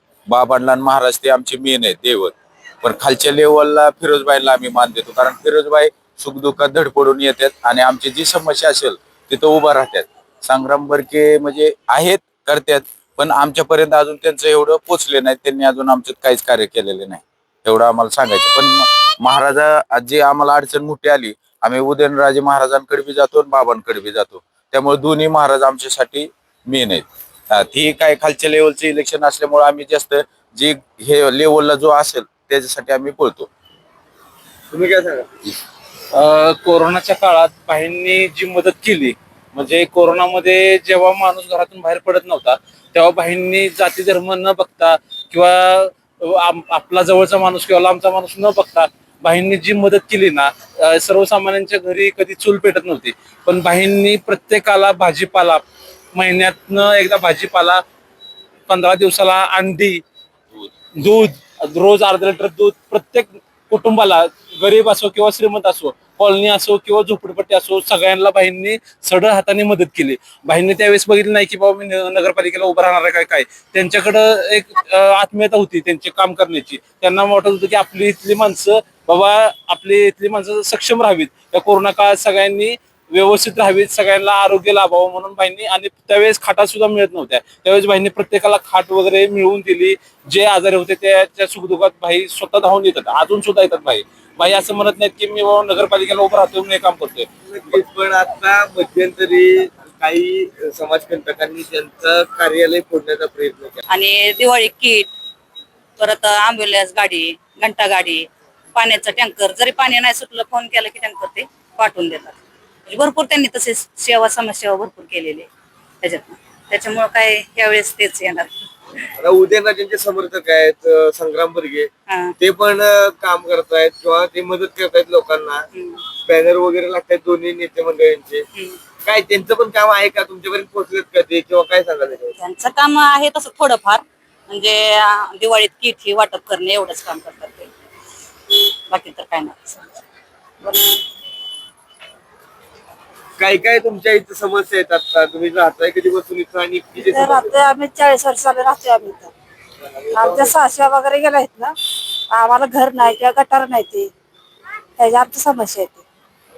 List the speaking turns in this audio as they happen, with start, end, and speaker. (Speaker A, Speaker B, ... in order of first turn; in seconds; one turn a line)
Speaker A: 0.3-33.5
Speaker B: 34.7-35.3
Speaker C: 36.1-55.6
Speaker C: 56.1-57.8
Speaker C: 58.7-60.0
Speaker C: 61.0-97.3
Speaker B: 97.5-103.8
Speaker D: 103.9-105.1
Speaker D: 106.0-115.5
Speaker D: 116.0-118.6
Speaker B: 119.2-121.9
Speaker D: 122.1-122.3
Speaker B: 122.4-125.7
Speaker D: 125.7-126.0
Speaker B: 126.2-128.4
Speaker B: 129.0-132.3
Speaker D: 132.4-137.7
Speaker D: 138.9-140.0
Speaker B: 143.4-147.5
Speaker E: 147.1-149.3
Speaker E: 150.1-151.7
Speaker B: 150.2-150.5
Speaker E: 152.3-154.1
Speaker E: 155.0-156.0